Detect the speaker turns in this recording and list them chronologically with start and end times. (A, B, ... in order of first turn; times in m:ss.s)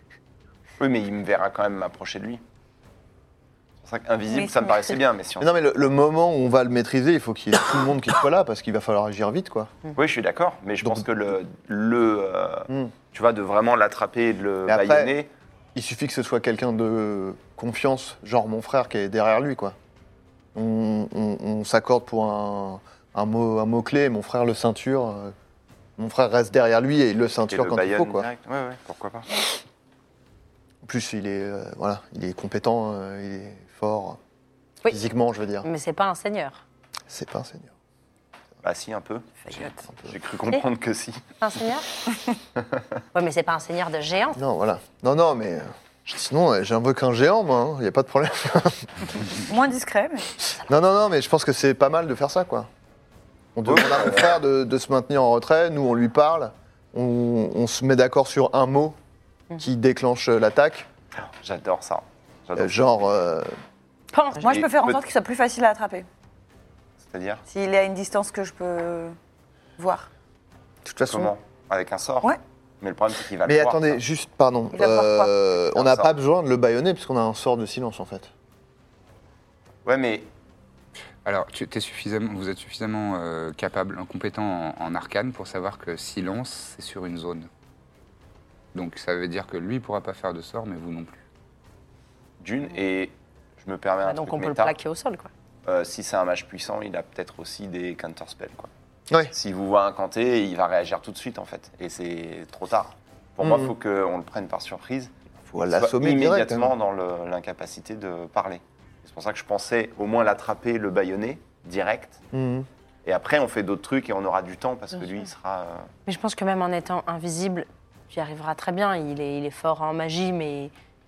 0:00.8-0:02.4 A
0:03.8-0:05.5 A
0:04.3-0:04.9 B
0:05.4-0:09.7 C
0:10.0-0:15.3 A
0:14.6-0:15.1 C
0:15.7-0:19.8 C
0:20.5-0:25.3 C
0:26.0-0:28.3 C
0:27.5-0:29.4 A
0:30.8-0:34.2 C
0:34.9-0:35.6 C
0:35.6-0:36.6 D
0:37.1-0:37.7 C
0:38.6-0:39.4 A
0:39.4-0:39.9 B
0:40.0-0:41.2 A
0:41.4-0:41.9 D
0:43.1-0:44.4 D
0:44.4-0:49.1 C
0:49.5-0:50.3 B
0:50.6-0:52.7 C
0:53.6-0:59.0 C
0:53.6-0:54.4 A
0:59.6-1:00.9 C
1:01.2-1:03.1 A
1:02.6-1:03.5 C
1:04.1-1:04.5 D
1:04.4-1:06.1 B
1:04.4-1:05.0 A
1:07.0-1:07.4 A
1:07.5-1:09.2 B
1:09.8-1:10.1 B
1:10.8-1:11.3 C
1:11.1-1:14.0 A
1:13.4-1:18.3 C
1:14.7-1:15.3 B
1:15.7-1:16.1 A
1:19.8-1:20.3 A
1:21.2-1:27.5 E
1:28.7-1:31.2 E
1:32.4-1:34.7 A
1:34.0-1:35.3 D
1:35.6-1:38.7 A
1:39.3-1:52.2 A
1:43.4-1:43.7 C
1:45.5-1:46.7 C
1:52.3-1:52.7 C
1:53.0-1:55.9 A
1:56.0-2:00.7 D